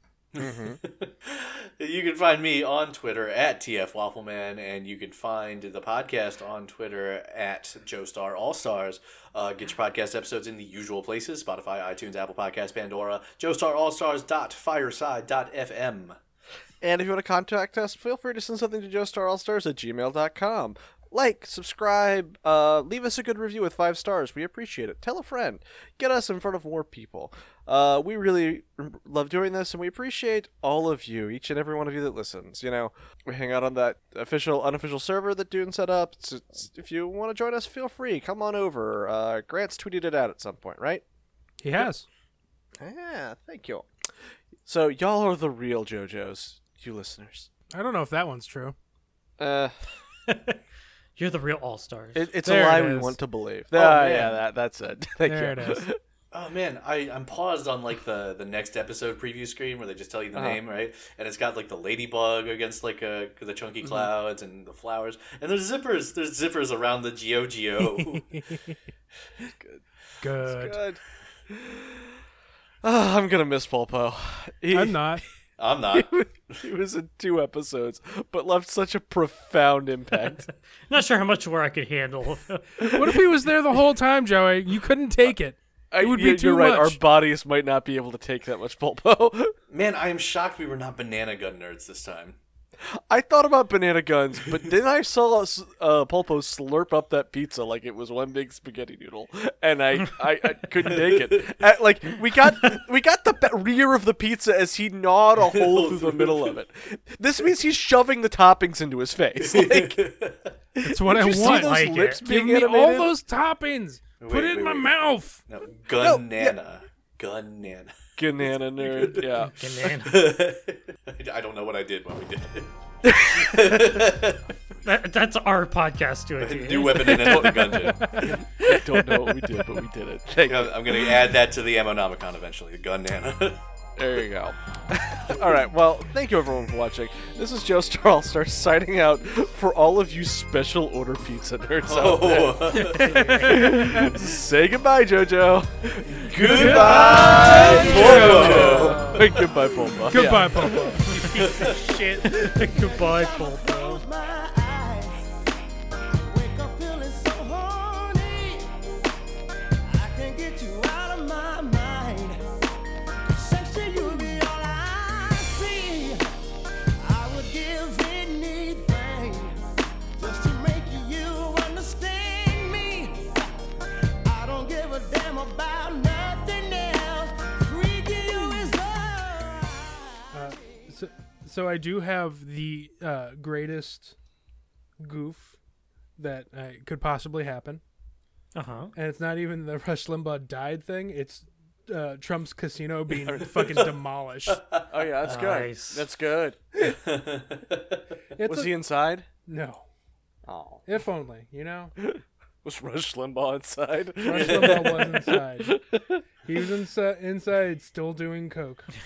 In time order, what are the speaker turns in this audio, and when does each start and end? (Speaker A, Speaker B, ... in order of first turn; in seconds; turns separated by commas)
Speaker A: 0.3-16.1, Speaker B: 0.4-0.8, Speaker B: 16.8-41.0, Speaker C: 41.6-42.0, Speaker B: 42.8-43.9, Speaker B: 44.6-47.5, Speaker C: 47.7-48.7, Speaker B: 49.4-49.7, Speaker D: 50.3-50.6, Speaker D: 51.2-52.3, Speaker B: 52.1-56.0, Speaker C: 52.4-53.1, Speaker A: 53.7-54.4, Speaker C: 55.2-55.9, Speaker A: 56.3-68.2, Speaker B: 60.3-60.6, Speaker B: 63.8-64.1, Speaker C: 67.8-68.7, Speaker B: 69.4-69.8, Speaker C: 70.2-70.8, Speaker B: 70.4-72.1, Speaker B: 72.8-75.0, Speaker C: 74.7-75.2, Speaker A: 75.6-76.6, Speaker B: 75.9-80.5, Speaker D: 80.9-82.6, Speaker B: 82.8-83.1, Speaker C: 82.8-87.0, Speaker B: 85.9-89.5, Speaker A: 89.7-92.3, Speaker B: 92.8-110.0, Speaker A: 101.0-101.5, Speaker A: 105.4-106.5, Speaker A: 109.4-110.5, Speaker B: 110.8-113.1, Speaker C: 110.8-115.4, Speaker D: 111.2-112.2, Speaker A: 114.2-114.9, Speaker A: 115.5-117.9, Speaker B: 116.0-116.5, Speaker B: 118.2-119.5, Speaker A: 118.8-119.3, Speaker D: 119.3-120.2, Speaker A: 120.0-124.4, Speaker B: 123.0-123.8, Speaker D: 124.8-127.5, Speaker A: 126.4-128.2, Speaker B: 127.1-131.2, Speaker A: 130.5-133.6, Speaker B: 134.0-151.0, Speaker A: 141.8-143.2, Speaker D: 142.8-143.8, Speaker C: 142.8-144.2, Speaker A: 146.1-149.2, Speaker C: 146.4-149.2, Speaker D: 148.4-149.2, Speaker C: 150.1-153.1, Speaker D: 151.0-154.0, Speaker A: 151.3-151.8, Speaker E: 151.7-155.2, Speaker E: 156.2-158.7, Speaker E: 159.8-162.4, Speaker E: 163.3-166.2, Speaker E: 167.0-169.6, Speaker E: 170.2-173.5, Speaker E: 174.2-180.5, Speaker C: 180.3-184.1, Speaker C: 185.0-185.6, Speaker C: 186.2-187.8, Speaker D: 188.5-188.9, Speaker C: 188.9-194.6, Speaker B: 193.2-193.8, Speaker A: 193.6-193.9, Speaker A: 194.5-194.8, Speaker B: 194.9-196.6, Speaker D: 195.2-196.1, Speaker A: 196.8-197.9, Speaker C: 198.4-198.7, Speaker B: 198.4-199.3, Speaker C: 199.4-199.8, Speaker B: 200.5-200.8, Speaker C: 200.8-201.9, Speaker B: 202.0-206.2, Speaker C: 204.2-205.8, Speaker A: 204.3-205.0, Speaker C: 206.4-208.9